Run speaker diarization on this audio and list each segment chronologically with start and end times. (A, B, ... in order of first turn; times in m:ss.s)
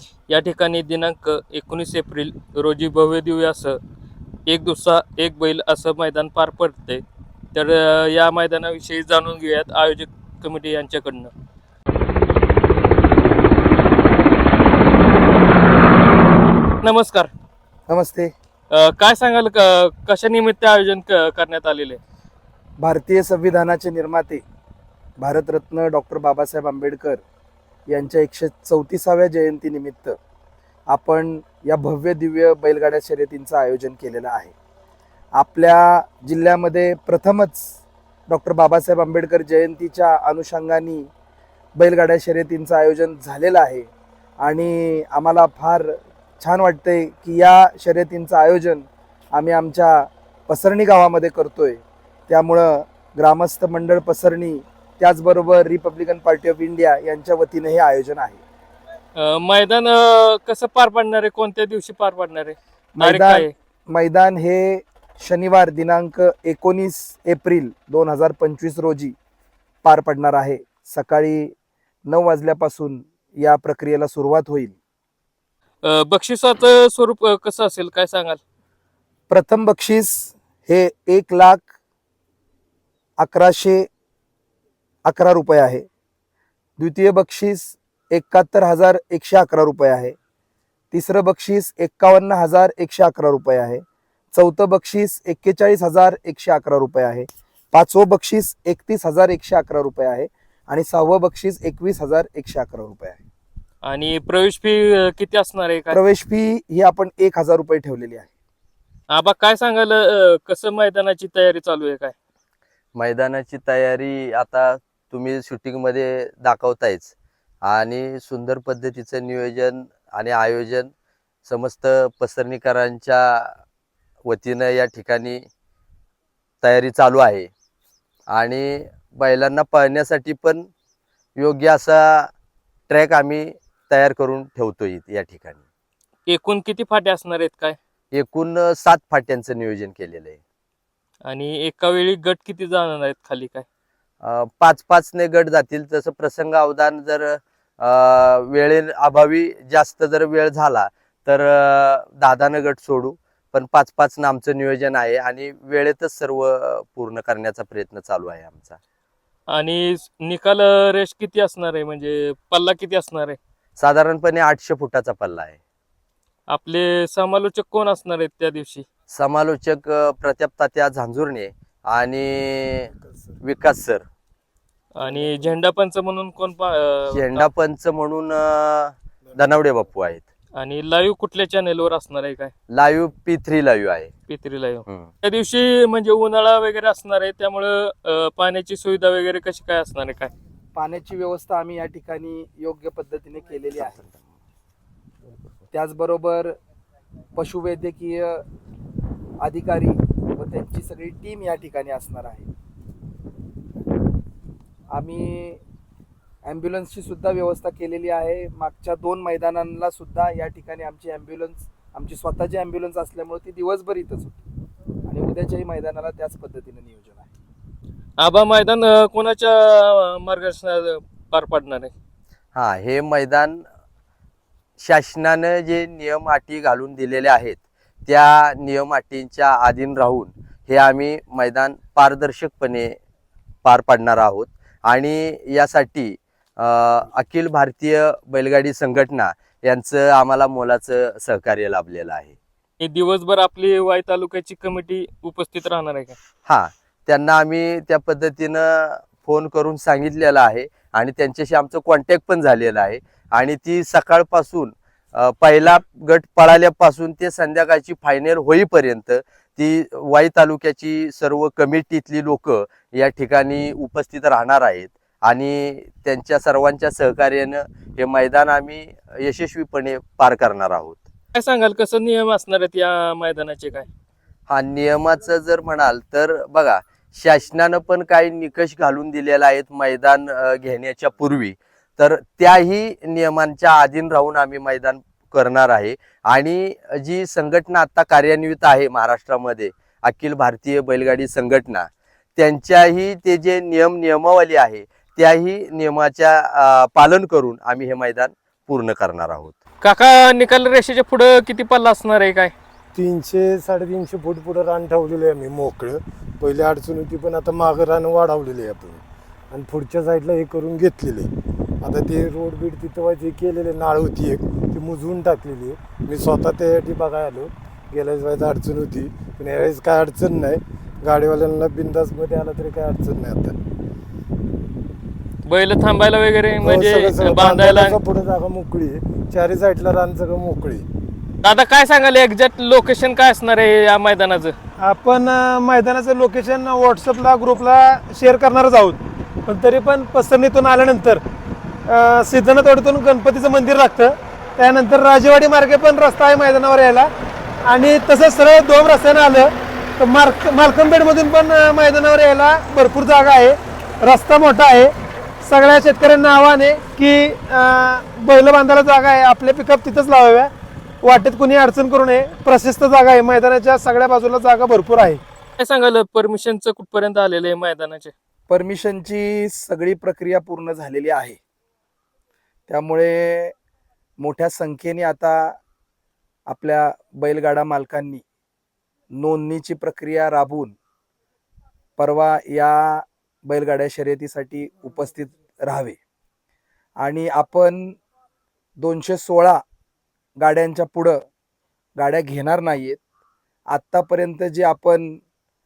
0:00.3-0:03.8 A
0:04.5-0:07.0 A
0:07.5-0:11.3 A
0:16.8-0:17.3 A
0:17.9-0:18.3 B
0:18.7-0:22.0 A
0:22.8-0:24.4 B
0:25.2-0:27.2 B
0:27.9-0:30.2 B
0:30.9-0:34.5 B
0:35.4-0:41.1 B
0:41.8-0:43.9 B
0:44.4-0:58.4 B
0:59.2-1:03.5 A
1:03.0-1:09.1 B
1:09.8-1:11.5 B
1:12.1-1:14.7 B
1:15.8-1:18.4 A
1:19.3-1:21.7 B
1:23.2-1:23.9 B
1:25.0-1:25.8 B
1:26.8-1:30.1 B
1:30.9-1:33.8 B
1:34.3-1:43.2 B
1:43.8-1:46.0 A
1:45.9-1:48.3 B
1:49.1-1:52.1 A
1:53.0-1:57.1 C
1:57.6-2:00.9 C
2:01.4-2:03.5 C
2:04.2-2:05.4 C
2:06.6-2:07.5 C
2:08.3-2:10.7 C
2:11.4-2:12.3 C
2:12.9-2:15.6 C
2:16.3-2:17.8 A
2:18.1-2:20.4 C
2:21.2-2:23.6 A
2:24.2-2:38.8 C
2:39.5-2:43.4 A
2:43.8-2:45.6 C
2:46.5-2:48.8 A
2:49.1-2:52.9 C
2:53.4-2:54.0 C
2:54.9-2:57.5 A
2:55.0-2:55.5 D
2:57.1-3:00.2 C
3:00.6-3:02.5 A
3:02.7-3:04.1 C
3:04.3-3:10.3 A
3:10.7-3:14.0 B
3:15.7-3:16.5 B
3:17.4-3:18.4 B
3:19.4-3:22.5 B
3:24.9-3:25.6 B
3:26.4-3:34.4 B
3:35.1-3:37.3 B
3:38.2-3:41.9 A
3:42.5-3:43.6 C
3:44.8-3:53.0 C
3:53.6-4:02.3 C
4:02.8-4:06.2 A
4:06.4-4:31.0 C
4:31.3-4:33.8 A
4:34.5-4:59.5 C
4:59.8-5:02.5 A
5:02.9-5:23.6 D
5:25.4-5:28.0 A
5:26.5-5:30.9 D
5:31.4-5:34.5 A
5:34.8-5:41.2 E
5:41.8-5:47.1 E
5:47.6-6:00.5 E
6:01.0-6:05.2 E
6:05.6-6:08.1 A
6:08.5-6:11.4 B
6:12.7-6:13.5 B
6:14.2-6:15.6 B
6:16.5-6:18.2 B
6:19.1-6:20.7 B
6:22.0-6:26.0 B
6:27.0-6:28.0 B
6:28.8-6:29.6 B
6:30.4-6:31.2 B
6:32.0-6:33.0 B
6:33.7-6:35.2 B